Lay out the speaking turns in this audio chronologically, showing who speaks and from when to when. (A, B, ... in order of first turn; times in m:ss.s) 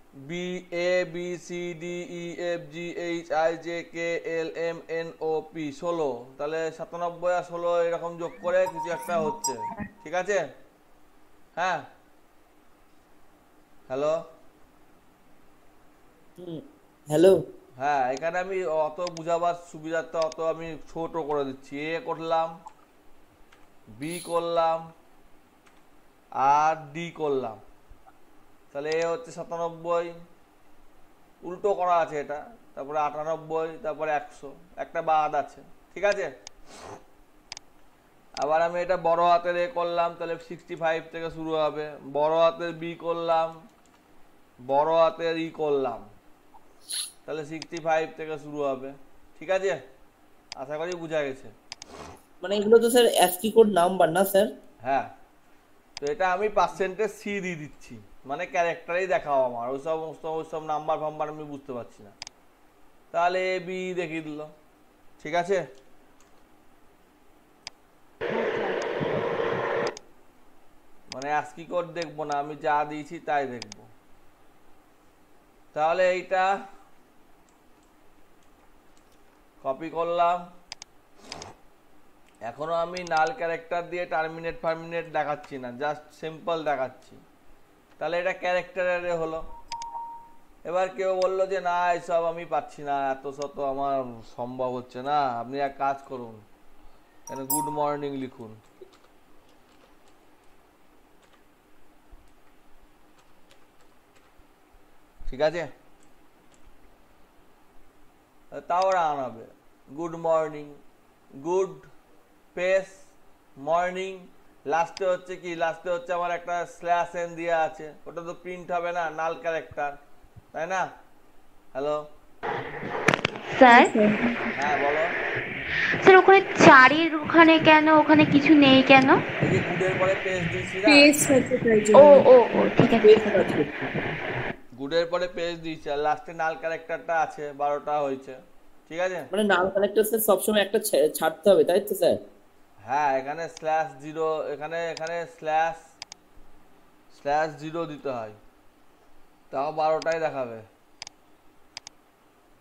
0:00.2-0:10.4 A
0:11.6-0:11.8 A
0:13.9-0:14.2 A
0:16.4-0:17.4 B
0:17.8-0:22.5 A
0:24.0-0:24.8 A
0:26.4-0:27.6 A
0:28.7-0:30.1 A
0:31.4-0:36.3 A
0:38.4-0:43.5 A
0:44.7-0:46.0 A
0:47.2-0:49.8 A
0:50.6-0:51.5 A
0:52.4-0:54.5 B
0:56.0-1:02.2 A
1:03.1-1:04.5 A
1:05.2-1:05.6 A
1:08.3-1:08.8 C
1:11.1-1:13.9 A
1:15.7-1:16.5 A
1:19.6-1:20.4 A
1:22.5-1:27.2 A
1:28.0-1:29.4 A
1:30.7-1:36.4 A
1:37.3-1:38.6 A
1:45.3-1:45.7 A
1:48.5-1:50.8 A
1:51.4-1:51.9 A
1:52.5-1:53.0 A
1:53.6-1:59.9 A
2:00.5-2:00.9 A
2:01.7-2:02.0 A
2:03.5-2:03.9 C
2:03.6-2:04.4 D
2:04.5-2:05.1 A
2:06.0-2:09.2 C
2:09.4-2:11.1 A
2:10.9-2:12.3 D
2:11.9-2:13.2 C
2:12.8-2:13.9 B
2:14.8-2:19.3 A
2:19.3-2:22.2 B
2:22.9-2:25.8 A
2:27.1-2:28.4 A
2:29.5-2:30.6 A